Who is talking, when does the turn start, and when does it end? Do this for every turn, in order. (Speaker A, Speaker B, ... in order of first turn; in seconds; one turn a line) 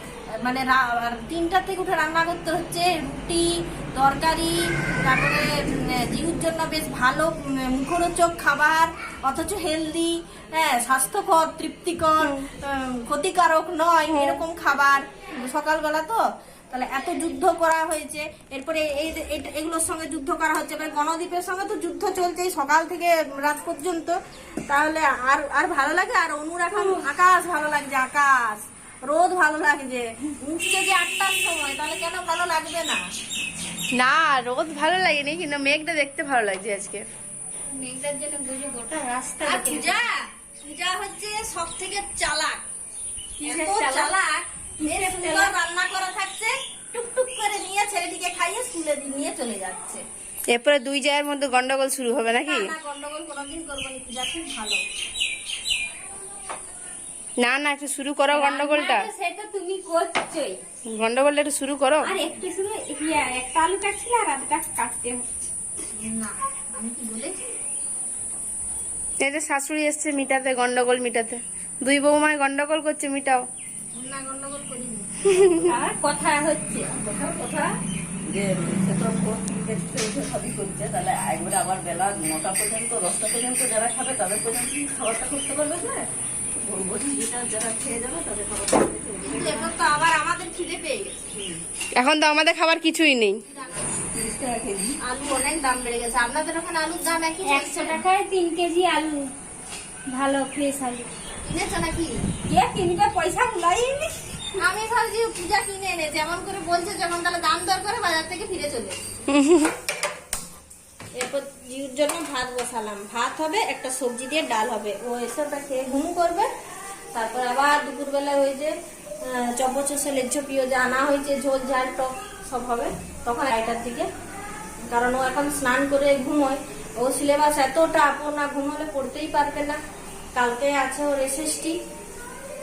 Speaker A: 0.3-33.0
Speaker B: 34.0-37.0
Speaker C: 37.7-40.0
Speaker B: 38.9-39.8
Speaker A: 39.4-42.6
Speaker A: 43.4-50.0
Speaker C: 43.4-44.1
Speaker C: 44.8-45.5
Speaker B: 50.5-52.7
Speaker A: 52.4-54.8
Speaker B: 57.4-59.1
Speaker C: 58.3-60.6
Speaker B: 60.9-62.1
Speaker C: 62.0-65.5
Speaker A: 65.9-67.4
Speaker B: 69.2-73.4
Speaker A: 73.9-75.1
Speaker B: 75.3-75.8
Speaker C: 75.6-77.7
Speaker D: 77.1-77.5
Speaker D: 78.2-89.7
Speaker A: 89.2-91.2
Speaker D: 91.3-91.6
Speaker B: 92.0-93.4
Speaker A: 93.5-93.9
Speaker D: 94.1-95.0
Speaker A: 95.0-98.0
Speaker C: 97.5-99.3
Speaker C: 100.1-101.1
Speaker A: 101.4-102.2
Speaker C: 102.4-104.2
Speaker A: 104.5-109.0
Speaker B: 109.3-109.7
Speaker A: 111.1-116.5
Speaker A: 117.1-124.1
Speaker A: 124.9-129.8
Speaker A: 130.3-131.7